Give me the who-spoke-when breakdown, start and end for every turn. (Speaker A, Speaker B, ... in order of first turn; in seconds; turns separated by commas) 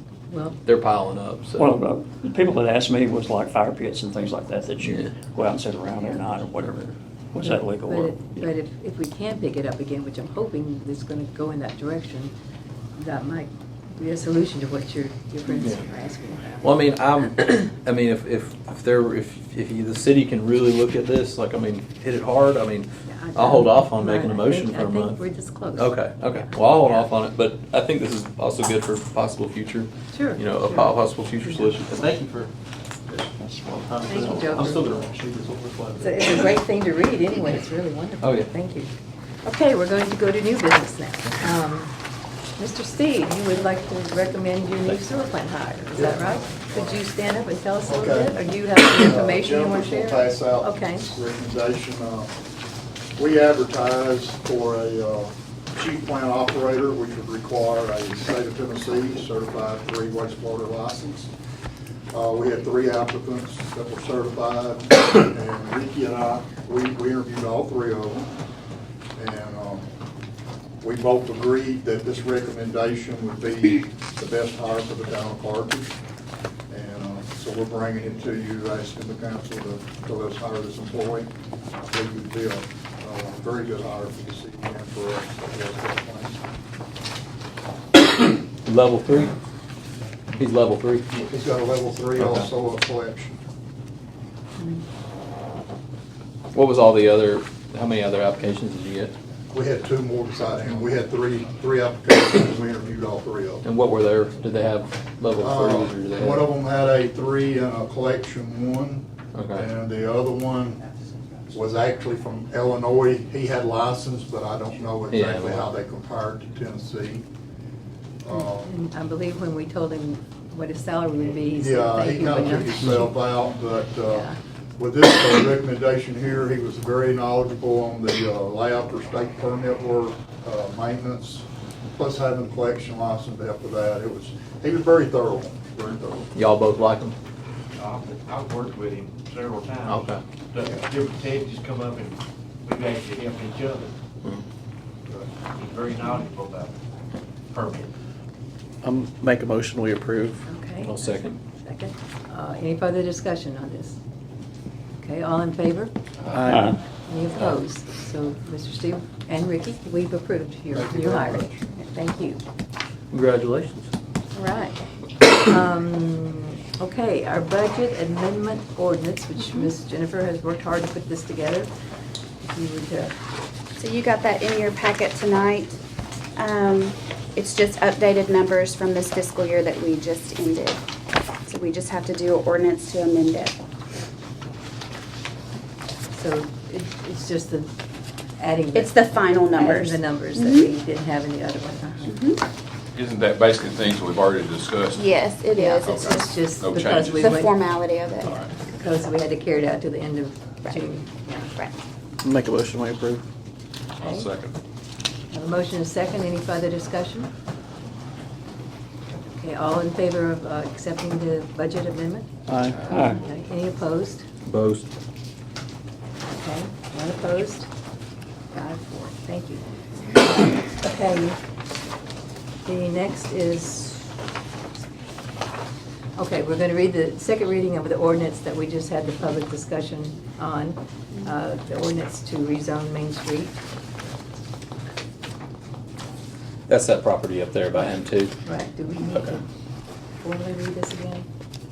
Speaker A: 0.3-0.6, Speaker B: 0.6-1.8, Speaker C: 1.6-8.4, Speaker B: 4.8-5.1, Speaker A: 7.8-12.3, Speaker A: 13.0-16.7, Speaker B: 15.5-15.8, Speaker B: 16.6-25.2, Speaker A: 23.1-25.9, Speaker B: 25.8-32.5, Speaker A: 30.1-31.7, Speaker C: 33.4-33.8, Speaker B: 33.9-36.3, Speaker A: 34.1-35.0, Speaker A: 36.0-38.9, Speaker B: 38.2-38.5, Speaker A: 39.5-41.9, Speaker A: 42.6-51.2, Speaker D: 47.8-52.3, Speaker D: 53.2-61.3, Speaker D: 62.1-68.3, Speaker D: 69.2-69.9, Speaker D: 70.8-76.0, Speaker D: 76.7-81.3, Speaker D: 81.9-86.4, Speaker B: 88.7-89.3, Speaker B: 90.4-91.1, Speaker D: 91.3-93.4, Speaker B: 92.2-92.5, Speaker B: 96.5-99.2, Speaker D: 99.5-103.7, Speaker B: 103.6-106.5, Speaker D: 105.4-110.9, Speaker B: 109.3-109.7, Speaker D: 111.5-117.3, Speaker B: 115.1-115.7, Speaker D: 118.2-118.8, Speaker A: 118.3-123.1, Speaker D: 121.6-136.3, Speaker A: 124.1-124.4, Speaker B: 136.3-137.2, Speaker E: 137.8-143.9, Speaker B: 139.9-140.2, Speaker E: 145.6-146.7, Speaker E: 147.5-147.9, Speaker F: 148.8-150.4, Speaker A: 150.5-154.0, Speaker B: 150.8-151.4, Speaker A: 155.0-155.9, Speaker F: 156.3-156.8, Speaker C: 156.5-156.8, Speaker A: 157.1-162.4, Speaker D: 160.7-161.6, Speaker B: 163.1-163.9, Speaker A: 164.3-171.7, Speaker A: 172.5-173.2, Speaker G: 173.8-175.8, Speaker G: 176.4-180.8, Speaker G: 181.5-183.6, Speaker A: 186.1-187.7, Speaker A: 188.4-192.2, Speaker G: 188.7-190.7, Speaker G: 192.1-192.4, Speaker H: 192.9-195.0, Speaker G: 194.9-196.2, Speaker A: 195.5-197.6, Speaker H: 195.8-197.3, Speaker G: 197.2-198.4, Speaker H: 198.2-198.5, Speaker A: 198.6-201.5, Speaker F: 202.2-203.2, Speaker A: 204.0-204.3, Speaker H: 204.0-204.5, Speaker A: 205.3-207.3, Speaker A: 209.3-212.3, Speaker F: 212.5-212.9, Speaker A: 212.9-214.3, Speaker C: 212.9-213.2, Speaker B: 214.5-214.9, Speaker A: 216.3-217.7, Speaker A: 218.5-219.6, Speaker A: 220.2-221.4, Speaker A: 222.7-224.1, Speaker A: 226.2-233.6, Speaker B: 236.7-238.3, Speaker A: 238.4-239.4, Speaker B: 239.1-239.4, Speaker A: 240.2-241.3